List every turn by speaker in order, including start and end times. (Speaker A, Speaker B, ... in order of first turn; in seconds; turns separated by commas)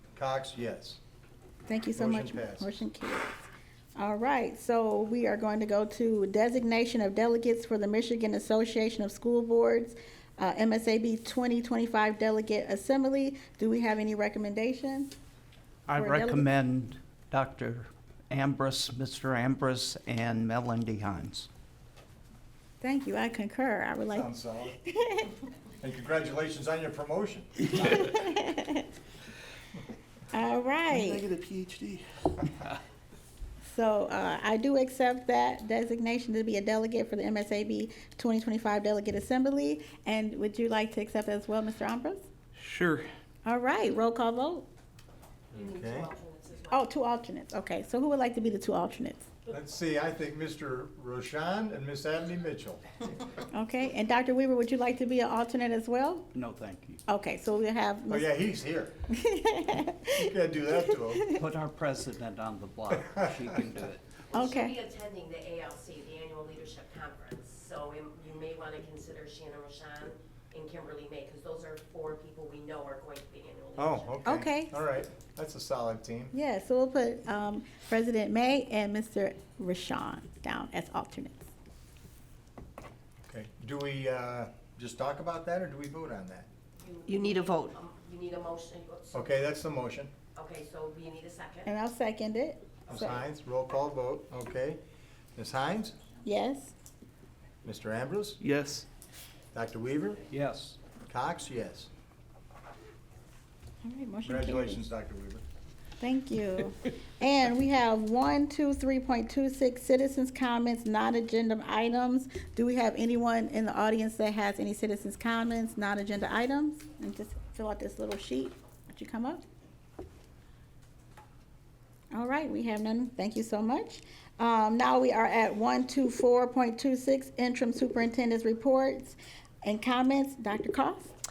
Speaker A: 0.2-1.0, Speaker B: 1.7-15.1, Speaker A: 1.9-2.7, Speaker C: 15.9-21.5, Speaker B: 16.0-16.5, Speaker B: 22.8-24.3, Speaker A: 24.1-24.8, Speaker B: 24.8-25.3, Speaker A: 25.8-28.2, Speaker B: 28.0-28.9, Speaker B: 30.3-31.3, Speaker D: 30.9-32.4, Speaker B: 33.7-42.3, Speaker D: 42.6-43.1, Speaker B: 43.5-44.7, Speaker E: 45.5-46.9, Speaker A: 45.5-46.1, Speaker B: 46.7-49.3, Speaker A: 49.5-52.8, Speaker B: 53.5-56.3, Speaker C: 56.3-57.0, Speaker B: 57.1-58.3, Speaker A: 58.1-59.0, Speaker B: 59.2-60.1, Speaker A: 60.1-61.3, Speaker C: 61.4-64.1, Speaker E: 64.3-74.2, Speaker B: 64.3-64.8, Speaker A: 73.8-76.3, Speaker B: 74.2-74.7, Speaker B: 76.3-81.5, Speaker A: 83.3-86.5, Speaker E: 86.8-89.4, Speaker A: 89.1-90.1, Speaker E: 90.3-91.7, Speaker B: 91.7-93.2, Speaker A: 92.9-94.8, Speaker A: 95.4-96.0, Speaker B: 96.2-96.7, Speaker A: 97.6-98.4, Speaker D: 98.4-98.9, Speaker A: 99.5-100.2, Speaker C: 100.3-100.8, Speaker A: 101.1-101.9, Speaker B: 103.8-104.8, Speaker A: 104.2-105.4, Speaker B: 106.0-119.4, Speaker B: 122.1-131.2